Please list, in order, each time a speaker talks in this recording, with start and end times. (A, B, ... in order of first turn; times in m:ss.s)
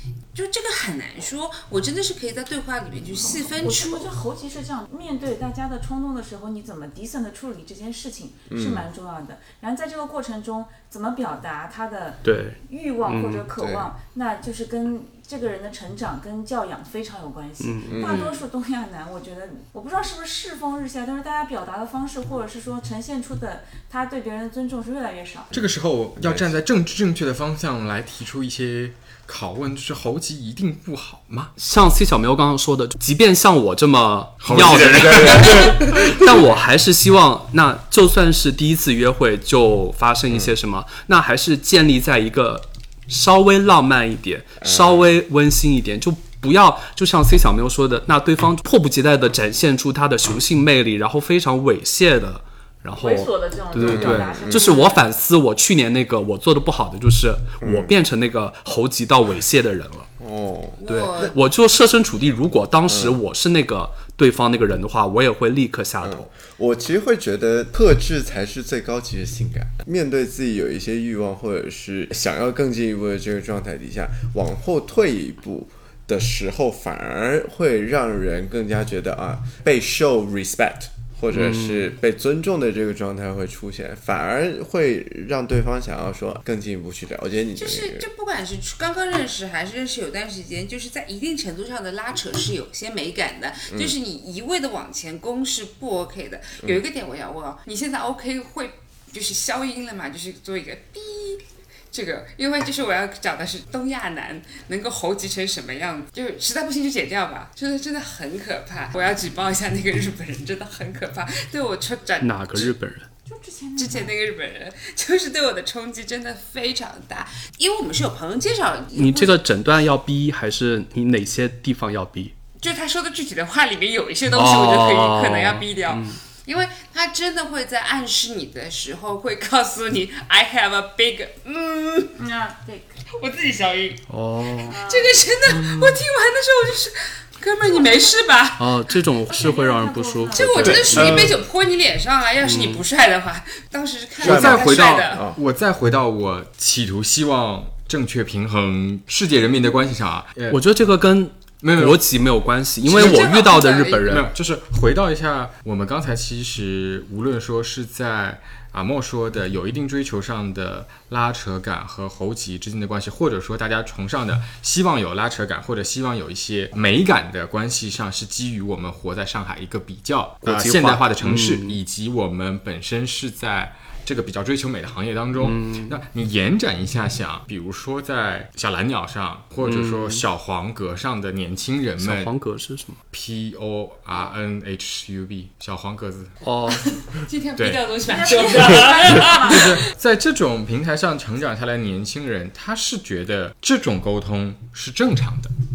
0:00.3-0:04.1 A
0:03.2-0:25.5 B
0:08.5-0:08.9 C
0:12.2-0:13.5 D
0:13.6-0:13.9 C
0:17.6-0:17.9 D
0:17.9-0:18.4 C
0:18.0-0:18.4 A
0:25.5-0:31.5 E
0:26.2-0:26.6 C
0:31.6-1:00.1 D
0:34.4-0:36.2 E
0:35.0-0:35.8 C
0:44.6-0:45.1 C
0:53.0-0:55.0 B
0:53.8-0:54.7 C
0:57.6-0:57.9 C
1:00.2-1:01.3 C
1:00.8-1:01.4 A
1:00.9-1:06.3 D
1:02.9-1:03.2 C
1:06.0-1:28.1 C
1:21.3-1:21.9 D
1:27.6-1:52.7 A
1:33.7-1:33.9 C
1:52.2-1:53.1 D
1:53.2-1:54.1 B
1:53.8-1:59.4 A
1:58.9-2:02.3 D
2:02.6-2:12.1 A
2:04.3-2:06.2 D
2:12.2-2:13.0 B
2:13.1-2:14.0 A
2:14.1-2:14.8 D
2:14.6-2:18.8 A
2:14.7-2:15.2 B
2:15.5-2:16.0 D
2:17.7-2:18.1 B
2:18.6-2:21.3 D
2:19.2-2:21.1 B
2:20.4-2:25.2 A
2:20.9-2:21.3 C
2:22.4-2:22.8 D
2:24.2-2:25.4 C
2:24.2-2:30.6 E
2:30.5-2:34.3 D
2:31.6-2:32.0 E
2:32.8-2:34.2 A
2:34.0-3:02.3 E
2:50.4-2:51.8 D
2:55.4-2:56.0 D
2:59.6-3:00.2 D
3:02.0-3:03.0 D
3:03.1-3:06.4 E
3:06.4-3:06.9 D
3:06.9-3:09.8 A
3:07.6-3:07.8 E
3:08.1-3:09.7 B
3:09.2-3:15.5 E